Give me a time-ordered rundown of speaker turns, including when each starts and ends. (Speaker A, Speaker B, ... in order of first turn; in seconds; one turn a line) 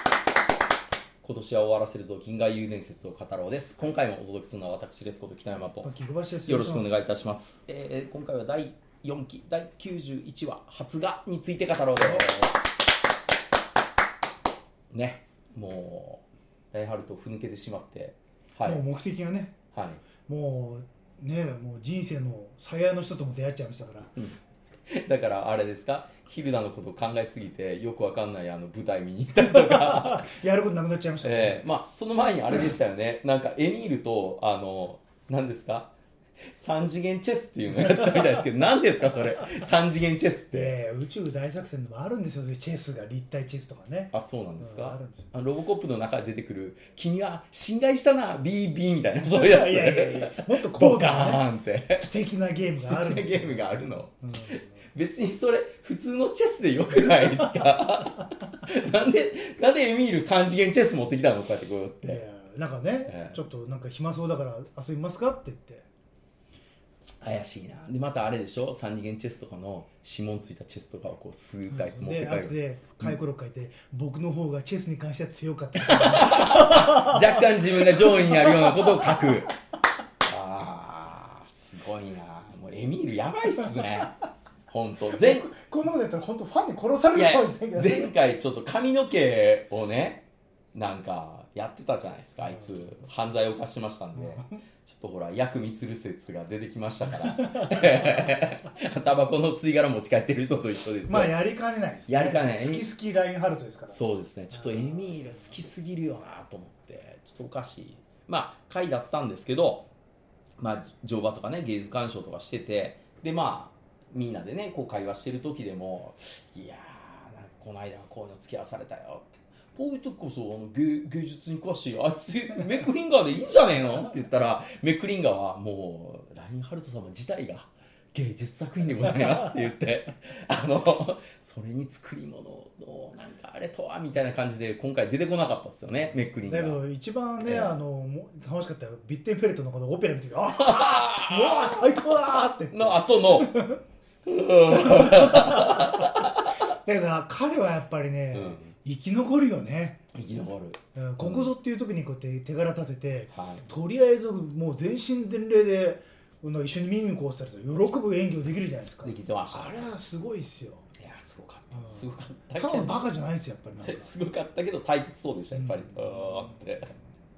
Speaker A: 1.2-5.9
Speaker B: 5.8-7.0
Speaker A: 6.5-12.6
Speaker B: 12.0-12.3
Speaker A: 14.9-18.8
Speaker B: 18.6-19.6
Speaker A: 19.7-20.0
Speaker B: 20.3-24.1
Speaker A: 24.2-30.3
Speaker B: 29.5-31.6
Speaker A: 31.2-35.9
Speaker A: 36.5-40.7
Speaker B: 40.5-45.3
Speaker A: 44.1-52.1
Speaker B: 49.2-51.5
Speaker B: 52.0-54.6
Speaker A: 52.8-62.2
Speaker B: 57.1-57.6
Speaker B: 62.0-65.9
Speaker A: 63.1-63.4
Speaker A: 67.2-73.2
Speaker B: 71.7-79.2
Speaker A: 75.8-79.5
Speaker A: 80.2-85.5
Speaker B: 85.1-88.1
Speaker A: 87.1-101.3
Speaker B: 94.2-94.5
Speaker B: 97.5-98.2
Speaker B: 101.1-105.4
Speaker A: 102.1-102.9
Speaker A: 103.9-109.9
Speaker A: 110.6-136.8
Speaker B: 136.4-143.8
Speaker A: 137.4-137.8
Speaker A: 140.6-142.2
Speaker A: 142.7-143.6
Speaker A: 144.2-146.5
Speaker B: 144.8-146.0
Speaker B: 146.8-150.0
Speaker A: 148.3-148.7
Speaker A: 150.1-151.5
Speaker B: 150.9-160.9
Speaker A: 153.3-153.7
Speaker A: 159.0-159.9
Speaker A: 161.0-163.0
Speaker B: 161.7-164.1
Speaker A: 163.8-166.9
Speaker B: 165.5-166.5